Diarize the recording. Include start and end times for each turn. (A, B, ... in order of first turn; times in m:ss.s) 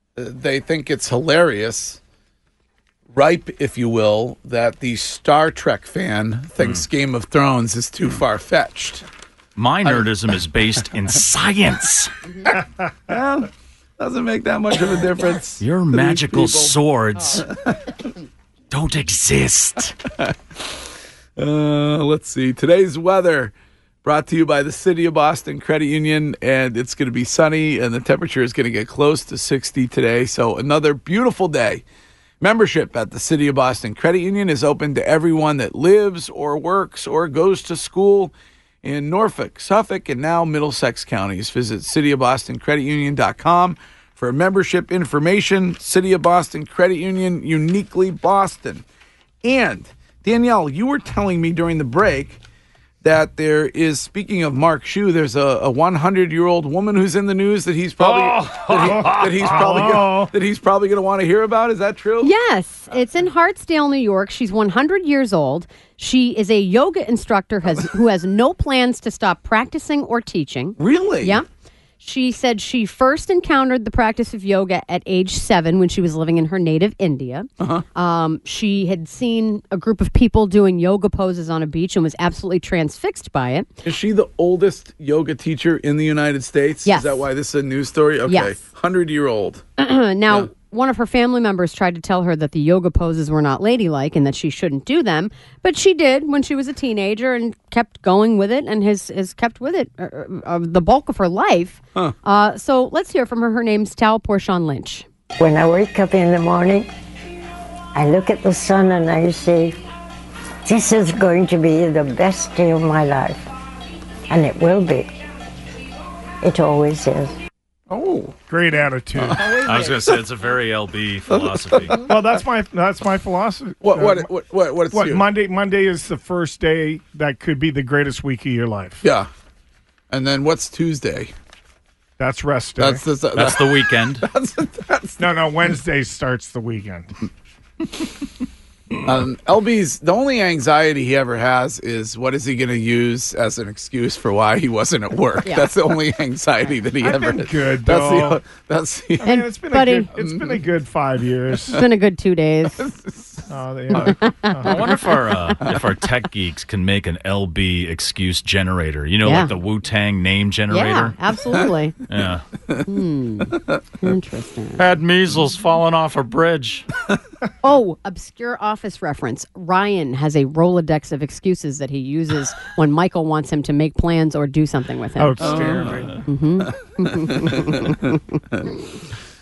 0:00.2-0:02.0 A
0:03.1-0:09.0 A
0:06.6-0:06.8 B
0:09.6-0:12.1 B
0:13.1-0:16.7 A
0:15.6-0:17.5 B
0:17.4-0:17.9 A
0:18.7-0:20.0 B
0:20.2-0:23.5 A
0:24.0-0:31.8 A
0:32.4-0:48.8 A
0:49.4-0:52.4 A
0:53.0-1:02.3 A
0:58.0-1:00.0 B
0:58.8-1:00.3 C
1:02.2-1:11.4 D
1:10.8-1:11.4 A
1:12.0-1:23.7 D
1:17.6-1:17.8 A
1:23.8-1:29.6 A
1:26.8-1:27.2 D
1:28.3-1:28.5 D
1:29.8-1:45.0 D
1:45.4-1:46.9 E
1:47.9-1:49.8 E
1:50.6-1:53.5 E
1:54.3-1:55.1 E
1:56.4-1:57.4 E
1:57.9-1:58.3 A
1:58.5-1:59.4 C
1:59.2-2:00.2 A
1:59.6-2:02.0 B
2:01.3-2:02.1 A
2:02.0-2:04.3 C
2:03.8-2:05.2 A
2:04.9-2:09.0 C
2:09.0-2:09.3 A
2:10.1-2:11.3 A
2:12.2-2:13.0 C
2:12.8-2:15.3 A
2:13.3-2:14.3 B
2:15.2-2:17.1 C
2:19.0-2:29.4 A
2:25.4-2:25.7 D
2:27.0-2:28.4 C
2:29.2-2:31.8 C
2:29.2-2:30.1 D
2:30.1-2:30.6 A
2:31.7-2:32.9 D
2:32.8-2:34.2 A
2:33.5-2:34.9 C
2:33.9-2:35.0 D
2:34.6-2:41.2 B
2:39.2-2:39.5 D
2:40.7-2:41.9 D
2:42.1-2:42.4 B
2:42.8-2:44.8 D
2:44.8-2:46.9 B
2:47.6-2:58.0 D
2:55.2-2:56.2 C
2:55.4-2:56.1 A
2:55.8-2:56.2 B
2:56.6-2:58.7 A